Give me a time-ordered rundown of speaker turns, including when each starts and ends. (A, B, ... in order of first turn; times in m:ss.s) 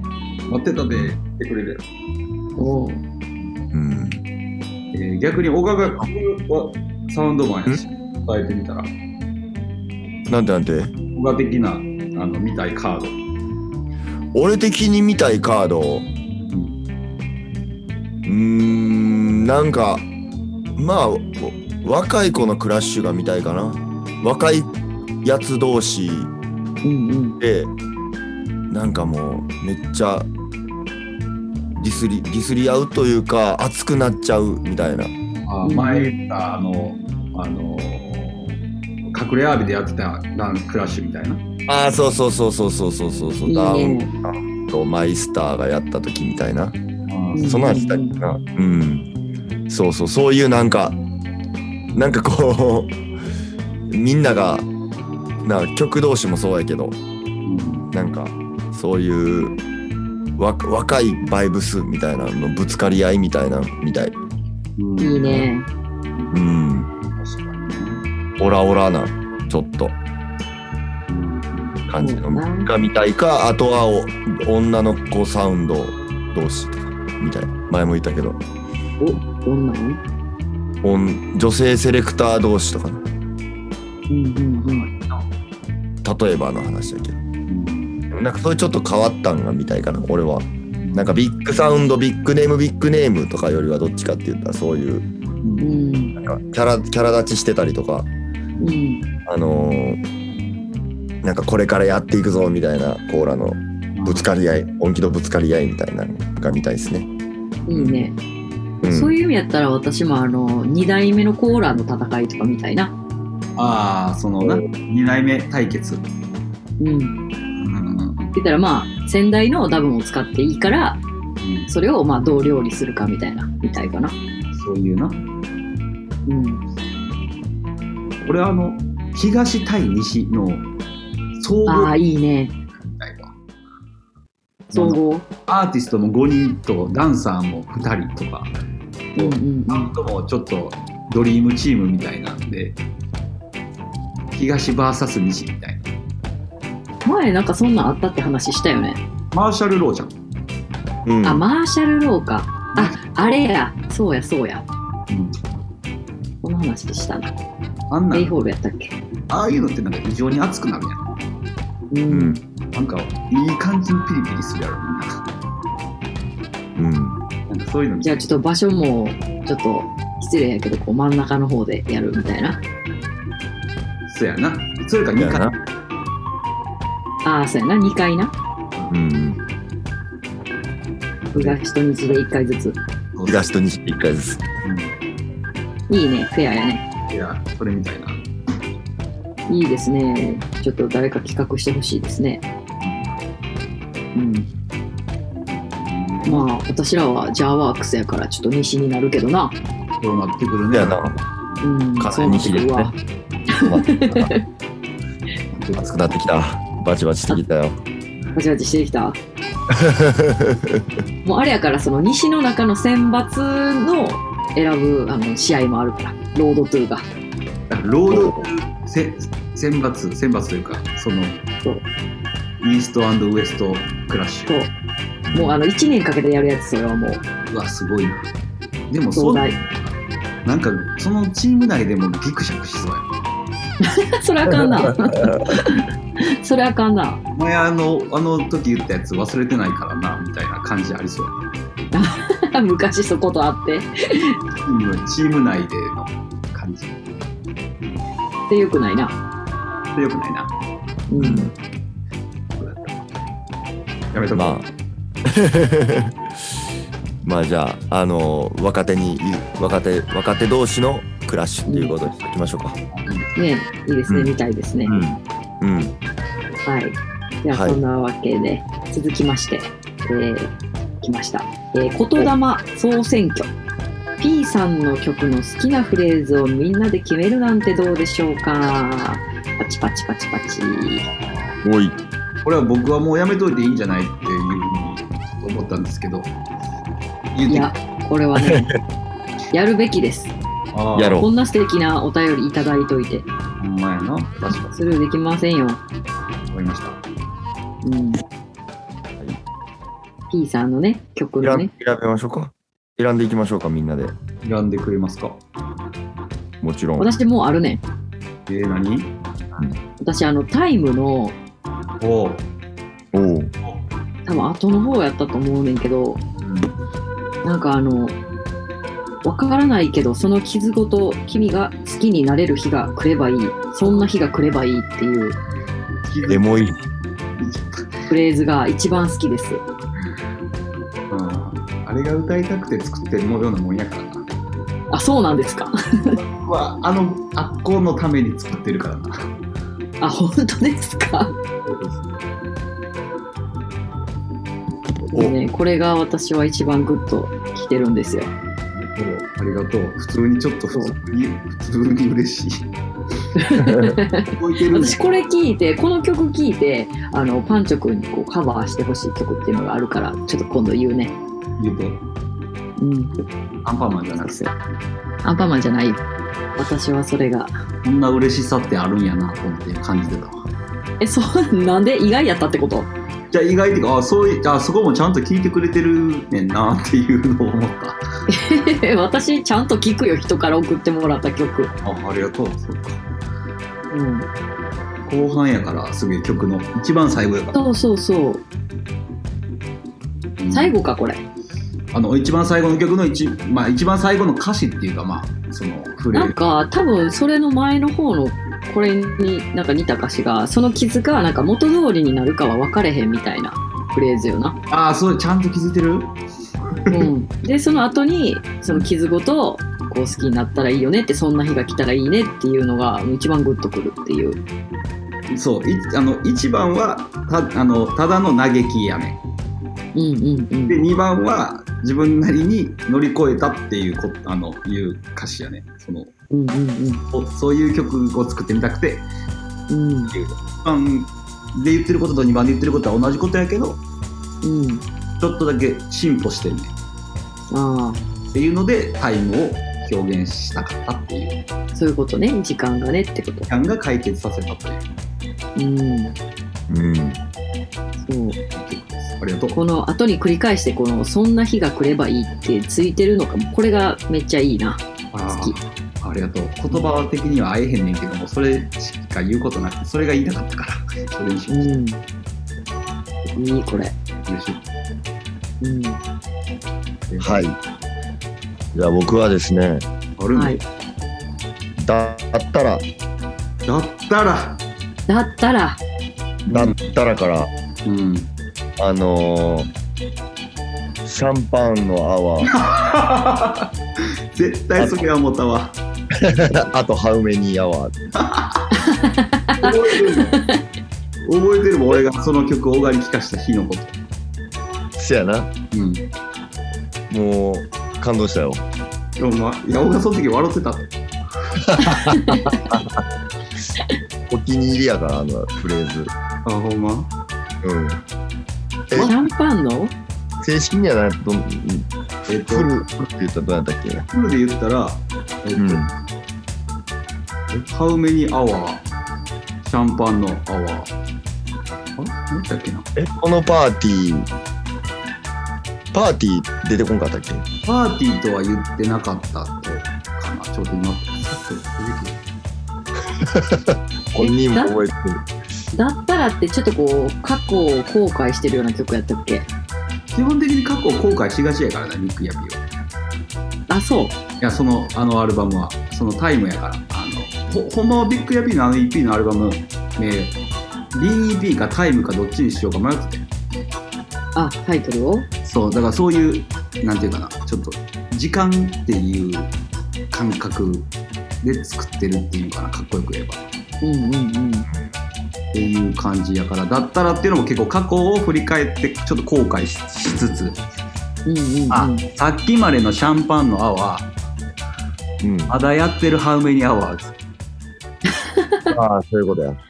0:00.5-0:01.8 A
0:02.6-0:03.0 B
0:03.7-0:04.2 C
0:04.9-0:08.9 A
0:10.3-0:10.9 C
0:11.1-0:13.2 A
0:14.3-0:16.1 C
0:16.4-0:16.8 A
0:18.2-0:20.0 C
0:20.8-0:24.7 C
0:25.2-0:26.3 C
0:26.8-0:27.4 B
0:27.4-0:27.7 C
0:28.7-0:30.3 C
0:31.8-0:35.1 C
0:35.4-0:38.5 A
0:35.6-0:36.1 B
0:39.1-0:41.4 A
0:41.7-0:46.8 C
0:43.5-0:44.1 B
0:47.1-0:47.5 A
0:47.3-0:48.2 B
0:47.4-0:49.1 C
0:49.7-0:51.0 C
0:51.9-0:53.0 C
0:53.9-0:54.7 C
0:55.4-0:57.0 C
0:57.4-0:57.9 A
0:57.9-0:59.6 C
1:00.4-1:04.2 C
1:04.8-1:05.5 A
1:05.0-1:05.7 B
1:06.3-1:06.9 C
1:07.1-1:08.0 A
1:08.4-1:10.0 C
1:11.1-1:11.8 A
1:11.9-1:18.4 C
1:12.0-1:12.7 B
1:19.0-1:20.0 B
1:20.8-1:23.0 C
1:24.1-1:24.9 B
1:24.6-1:25.2 A
1:26.0-1:27.2 C
1:27.5-1:28.0 A
1:28.1-1:35.0 C
1:30.8-1:31.2 A
1:35.4-1:35.8 A
1:35.6-1:36.1 B
1:36.2-1:38.1 C
1:38.6-1:39.0 B
1:39.2-1:40.0 C
1:41.2-1:47.1 C
1:43.9-1:44.2 A
1:47.7-1:48.2 B
1:47.7-1:48.1 C
1:48.8-1:52.9 B
1:48.8-1:49.1 C
1:53.6-1:56.0 A
1:56.8-1:57.2 B
1:57.6-1:58.4 A
1:58.3-2:01.0 B
2:01.4-2:01.7 A
2:01.7-2:04.1 B
2:04.5-2:05.2 A
2:06.2-2:06.6 B
2:08.2-2:10.7 A
2:11.4-2:12.0 A
2:11.7-2:12.5 B
2:12.8-2:13.3 A
2:14.7-2:15.2 B
2:14.7-2:18.5 A
2:19.2-2:19.9 B
2:19.2-2:22.8 A
2:24.3-2:25.8 A
2:27.0-2:29.0 B
2:29.3-2:30.1 A
2:31.0-2:31.4 C
2:31.2-2:34.6 B
2:32.7-2:33.0 A
2:35.1-2:35.4 A
2:36.4-2:37.3 B
2:37.9-2:38.3 A
2:38.1-2:39.0 B
2:39.3-2:41.1 A
2:41.9-2:42.4 B
2:42.1-2:42.4 C
2:42.7-2:45.2 A
2:46.8-2:47.2 C
2:47.5-2:48.2 A
2:48.0-2:52.6 B
2:54.1-2:55.6 A
2:55.2-2:55.5 C
2:57.2-2:58.3 B
2:58.9-2:59.4 C
3:01.3-3:02.8 B
3:03.1-3:03.4 A
3:03.2-3:04.4 C
3:04.6-3:04.9 A
3:05.9-3:06.8 B
3:07.1-3:08.2 A
3:09.5-3:12.4 B
3:12.8-3:13.1 A
3:14.1-3:14.5 B
3:15.3-3:16.5 A
3:16.2-3:19.6 B
3:20.0-3:21.0 A
3:20.7-3:21.2 C
3:21.6-3:23.0 B
3:22.0-3:23.0 C
3:23.5-3:24.4 B
3:23.5-3:24.3 C
3:25.5-3:26.2 A
3:25.8-3:27.8 C
3:28.3-3:29.2 B
3:29.7-3:30.9 C
3:31.2-3:37.1 B
3:37.7-3:41.4 A
3:38.1-3:38.4 C
3:42.6-3:44.5 A
3:45.3-3:45.6 C
3:45.3-3:47.2 B
3:47.5-3:48.3 A
3:48.9-3:49.5 A
3:49.1-3:49.5 B
3:50.4-3:53.1 A
3:53.8-3:57.2 B
3:57.4-4:01.4 A
4:01.9-4:04.4 B
4:04.6-4:07.0 A
4:08.5-4:09.2 B
4:09.9-4:10.5 A
4:11.1-4:11.5 B
4:11.2-4:11.5 C
4:12.6-4:13.1 A
4:14.1-4:14.6 A
4:14.3-4:14.6 C
4:15.2-4:16.1 C
4:17.2-4:22.8 C
4:21.7-4:21.9 B
4:22.9-4:23.4 A
4:23.4-4:25.0 B
4:24.1-4:24.3 C
4:24.8-4:25.9 C
4:26.6-4:33.5 B
4:27.5-4:27.8 C
4:34.2-4:41.1 B
4:41.6-4:42.0 C
4:42.4-4:46.3 A
4:47.3-4:47.7 A
4:47.5-4:48.7 B
4:48.4-4:48.7 C
4:49.5-4:50.3 B
4:50.7-4:51.2 A
4:50.9-4:51.3 C
4:51.2-4:53.3 B
4:53.6-4:54.7 A
4:54.7-4:55.8 B
4:56.5-4:57.0 A
4:57.8-4:58.2 B
5:00.3-5:01.7 B
5:01.4-5:04.1 C
5:04.4-5:05.4 A
5:06.6-5:07.1 C
5:07.0-5:07.8 B
5:08.5-5:09.1 A
5:09.5-5:09.8 C
5:10.0-5:11.4 B
5:12.0-5:12.4 A
5:13.1-5:13.5 C
5:14.2-5:16.2 B
5:16.4-5:16.7 A
5:17.4-5:18.2 B
5:19.2-5:25.4 B
5:26.0-5:26.7 A
5:26.2-5:26.8 C
5:27.4-5:27.9 A
5:28.1-5:29.6 B
5:31.1-5:34.2 A
5:34.9-5:36.2 B
5:36.1-5:39.3 A
5:40.0-5:41.4 B
5:41.6-5:42.2 A
5:45.1-5:48.3 B
5:48.7-5:52.7 A
5:53.4-6:01.1 B
5:53.6-5:53.9 C
5:54.3-5:55.0 A
6:01.6-6:02.0 A
6:02.8-6:03.1 B
6:03.6-6:04.5 A
6:04.2-6:04.5 B
6:05.2-6:06.0 B
6:06.6-6:07.5 B
6:07.8-6:10.5 A
6:11.0-6:12.9 B
6:13.3-6:18.0 A
6:18.3-6:21.7 B
6:21.8-6:23.0 A
6:23.9-6:24.3 B
6:25.0-6:27.6 A
6:27.5-6:28.4 B
6:30.4-6:30.8 A
6:30.5-6:31.2 B
6:31.9-6:36.4 A
6:36.1-6:44.6 B
6:44.7-6:46.1 A
6:46.8-6:47.1 A
6:46.9-6:54.4 B
6:55.3-6:59.2 A
6:59.9-7:00.8 B
7:00.7-7:06.1 A
7:06.3-7:07.0 B
7:07.1-7:09.1 A
7:09.7-7:10.1 B
7:10.1-7:13.8 A
7:14.4-7:14.8 B
7:15.2-7:16.7 A
7:17.5-7:18.0 B
7:18.3-7:21.4 A
7:21.7-7:23.5 B
7:23.5-7:24.9 A
7:25.6-7:26.2 B
7:26.7-7:27.2 C
7:28.0-7:28.4 B
7:28.5-7:29.6 A
7:29.5-7:35.6 B
7:35.1-7:41.8 A
7:41.5-7:42.0 B
7:43.2-7:43.9 B
7:44.2-7:44.6 A
7:45.6-7:46.0 B
7:47.1-7:47.4 A
7:47.2-7:47.6 C
7:48.7-7:49.8 C
7:50.2-7:50.6 A
7:50.3-7:50.6 B
7:51.8-7:52.8 C
7:53.6-7:54.6 A
7:55.1-7:55.8 B
7:56.5-7:56.8 A
7:56.5-7:57.5 C
7:57.8-7:58.3 A
7:58.8-7:59.7 C
8:01.0-8:02.5 C
8:02.4-8:03.7 A
8:04.3-8:05.8 A
8:06.1-8:07.9 C
8:08.2-8:08.7 A
8:08.7-8:10.6 B
8:09.6-8:10.4 A
8:11.2-8:14.0 A
8:15.0-8:15.5 C
8:15.7-8:16.0 A
8:17.1-8:18.6 C
8:19.2-8:20.9 A
8:21.6-8:23.0 C
8:21.8-8:22.6 B
8:24.3-8:26.1 C
8:26.4-8:27.1 A
8:27.6-8:28.0 C
8:28.9-8:29.2 C
8:28.9-8:29.9 B
8:30.4-8:34.0 C
8:32.3-8:32.8 A
8:34.1-8:35.9 A
8:35.6-8:35.9 C
8:37.5-8:38.8 A
8:39.6-8:40.9 A
8:42.0-8:42.9 A
8:43.0-8:44.3 C
8:45.9-8:47.4 C
8:47.6-8:52.2 A
8:53.2-8:55.2 C
8:54.2-8:54.8 B
8:55.7-8:59.5 B
9:00.1-9:02.6 A
9:03.7-9:04.2 B
9:04.4-9:10.4 A
9:10.9-9:13.2 A
9:14.3-9:15.3 B
9:15.4-9:19.5 A
9:20.1-9:20.9 A
9:21.4-9:23.4 A
9:23.8-9:24.7 B
9:25.5-9:30.6 A
9:31.2-9:32.0 B
9:31.7-9:34.1 A
9:35.2-9:35.5 C
9:35.5-9:37.2 A
9:38.2-9:38.7 B
9:38.7-9:39.6 C